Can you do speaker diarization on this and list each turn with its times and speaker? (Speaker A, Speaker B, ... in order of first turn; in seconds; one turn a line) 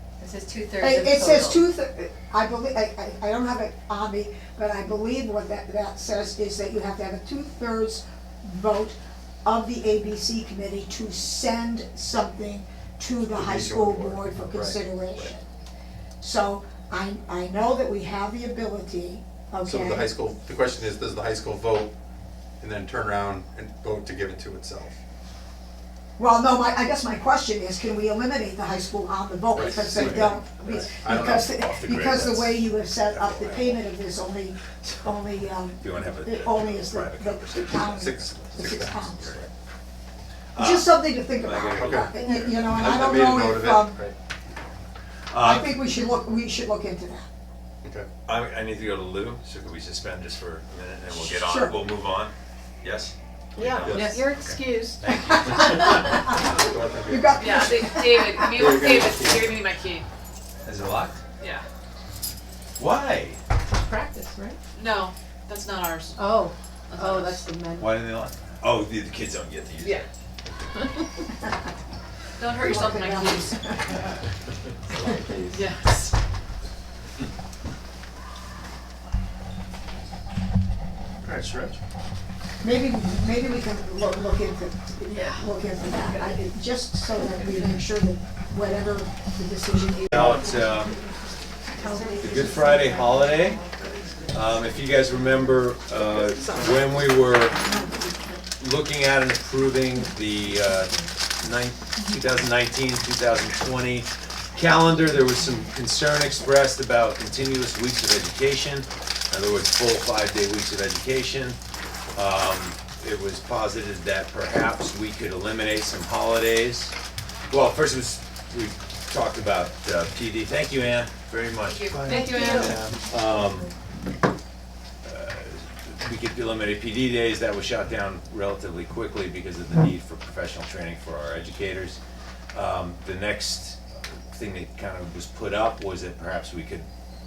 Speaker A: 0.2-1.6
Speaker B: 0.8-15.4
Speaker C: 13.3-15.3
Speaker B: 16.2-20.1
Speaker C: 19.6-21.9
Speaker C: 22.6-25.0
Speaker B: 26.2-39.3
Speaker C: 29.6-31.5
Speaker D: 29.7-30.3
Speaker D: 31.0-33.8
Speaker D: 34.8-35.2
Speaker D: 35.8-39.5
Speaker C: 38.0-39.5
Speaker D: 40.5-42.2
Speaker B: 40.6-44.0
Speaker C: 41.8-44.2
Speaker D: 45.3-45.8
Speaker B: 45.3-47.3
Speaker C: 47.8-48.1
Speaker D: 48.3-56.3
Speaker B: 51.1-51.8
Speaker A: 53.6-56.1
Speaker C: 53.8-54.2
Speaker E: 53.9-54.3
Speaker B: 55.3-56.5
Speaker C: 56.1-57.8
Speaker B: 57.1-58.7
Speaker E: 57.4-60.1
Speaker C: 58.4-59.6
Speaker D: 60.6-61.2
Speaker E: 61.4-61.6
Speaker D: 62.8-63.4
Speaker A: 63.7-64.6
Speaker E: 64.7-66.2
Speaker A: 66.2-67.9
Speaker E: 66.9-67.5
Speaker D: 67.8-70.1
Speaker E: 72.4-73.6
Speaker B: 72.6-74.0
Speaker C: 74.9-75.6
Speaker E: 75.5-76.1
Speaker C: 81.2-81.8
Speaker B: 82.6-90.6
Speaker A: 85.1-86.5
Speaker A: 87.3-87.8
Speaker D: 90.1-91.0
Speaker A: 90.5-91.0
Speaker A: 91.7-94.6
Speaker B: 91.8-92.7
Speaker D: 92.2-93.6
Speaker D: 94.3-97.6
Speaker E: 96.3-96.8
Speaker B: 97.6-98.4
Speaker D: 98.6-111.6
Speaker D: 112.2-116.9
Speaker D: 117.5-123.7
Speaker E: 121.6-122.8
Speaker A: 122.1-122.8
Speaker D: 125.0-132.0
Speaker D: 132.5-133.8
Speaker D: 134.3-136.9